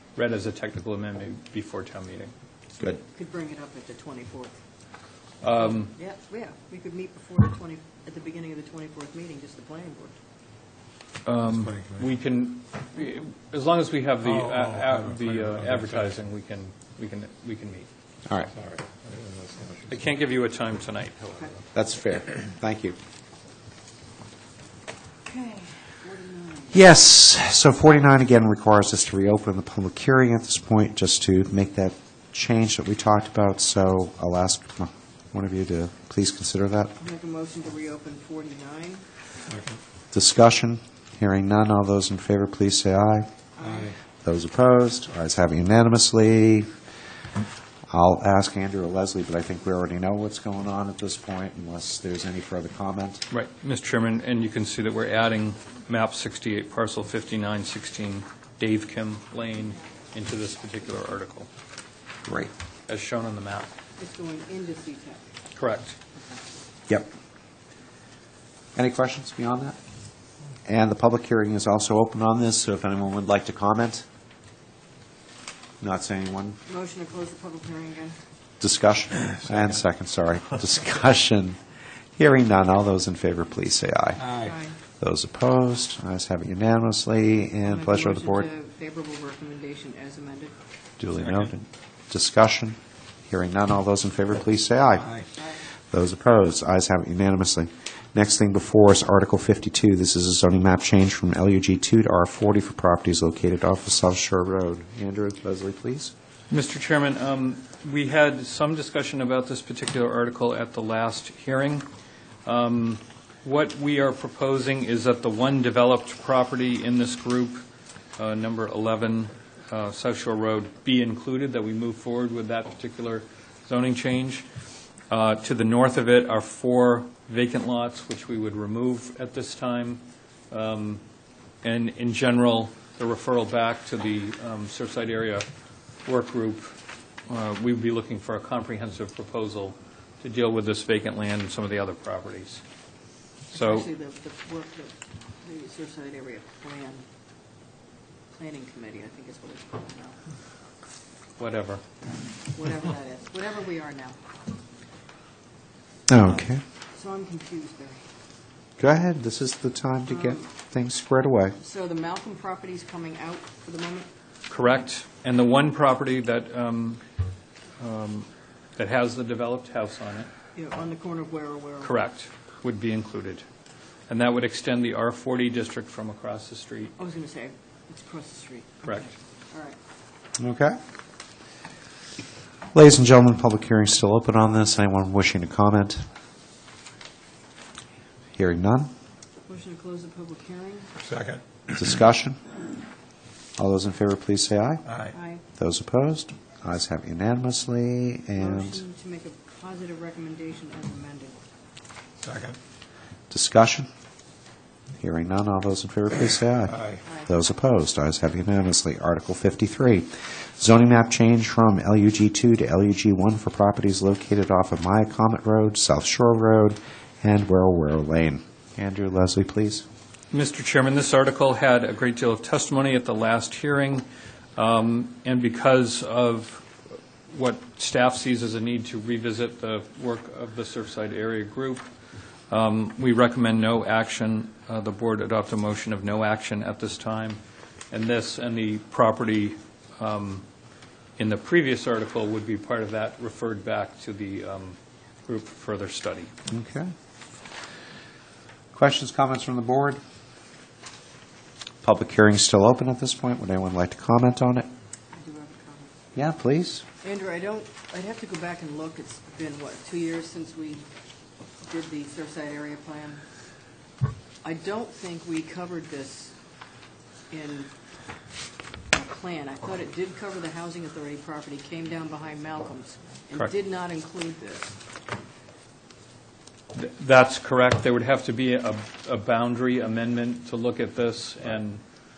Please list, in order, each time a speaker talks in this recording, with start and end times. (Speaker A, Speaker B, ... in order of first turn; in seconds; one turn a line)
Speaker A: 0.1-2.3
Speaker B: 3.0-4.5
Speaker A: 5.4-5.9
Speaker B: 5.6-10.2
Speaker A: 11.2-17.9
Speaker C: 11.5-12.0
Speaker C: 14.2-16.0
Speaker C: 18.5-20.0
Speaker A: 19.9-21.5
Speaker D: 21.7-22.9
Speaker B: 25.3-26.8
Speaker D: 26.7-36.9
Speaker B: 37.0-39.0
Speaker C: 39.5-39.8
Speaker D: 40.1-43.3
Speaker B: 43.6-43.9
Speaker C: 43.6-44.0
Speaker D: 44.2-46.7
Speaker D: 47.9-53.2
Speaker A: 53.3-61.5
Speaker D: 62.2-62.5
Speaker A: 62.9-63.7
Speaker B: 64.0-65.3
Speaker A: 65.5-66.0
Speaker D: 68.7-69.8
Speaker D: 70.7-74.0
Speaker D: 75.8-76.6
Speaker B: 76.7-78.2
Speaker D: 78.6-81.6
Speaker D: 82.2-88.5
Speaker C: 84.2-84.5
Speaker B: 84.3-84.8
Speaker B: 87.7-90.5
Speaker D: 91.0-92.8
Speaker D: 93.3-95.2
Speaker D: 95.9-106.1
Speaker A: 106.5-111.8
Speaker A: 112.4-117.6
Speaker A: 118.2-124.5
Speaker A: 125.1-131.0
Speaker A: 131.6-135.5
Speaker A: 136.0-136.8
Speaker A: 137.3-142.6
Speaker A: 143.5-143.9
Speaker B: 143.5-147.0
Speaker B: 148.3-150.2
Speaker A: 151.4-151.8
Speaker B: 152.5-154.2
Speaker D: 156.1-156.6
Speaker B: 156.9-158.0
Speaker D: 158.8-161.6
Speaker B: 160.1-160.4
Speaker B: 161.6-164.1
Speaker A: 164.5-167.0
Speaker A: 167.8-170.3
Speaker B: 170.5-171.9
Speaker A: 171.8-173.4
Speaker A: 174.1-176.9
Speaker B: 177.0-179.8
Speaker A: 178.8-179.1
Speaker D: 180.4-180.8
Speaker D: 182.7-186.0
Speaker D: 188.3-188.9
Speaker B: 189.4-190.9
Speaker C: 191.0-191.4
Speaker D: 191.7-192.4
Speaker D: 193.6-194.9
Speaker C: 194.9-195.1
Speaker B: 195.1-195.4
Speaker D: 195.6-198.8
Speaker B: 198.4-201.3
Speaker C: 202.2-202.6
Speaker D: 203.3-203.9
Speaker D: 205.0-219.8
Speaker A: 220.3-224.0
Speaker A: 224.6-226.7
Speaker A: 227.3-231.9
Speaker A: 232.5-237.4
Speaker A: 237.9-240.4
Speaker A: 241.2-246.3
Speaker D: 246.5-246.9
Speaker D: 248.7-250.0
Speaker D: 251.8-254.7
Speaker B: 255.1-255.9
Speaker D: 256.1-256.8
Speaker B: 257.0-260.8
Speaker B: 261.6-263.2
Speaker B: 264.4-266.3
Speaker B: 267.3-267.7
Speaker B: 268.9-274.7
Speaker A: 276.7-281.8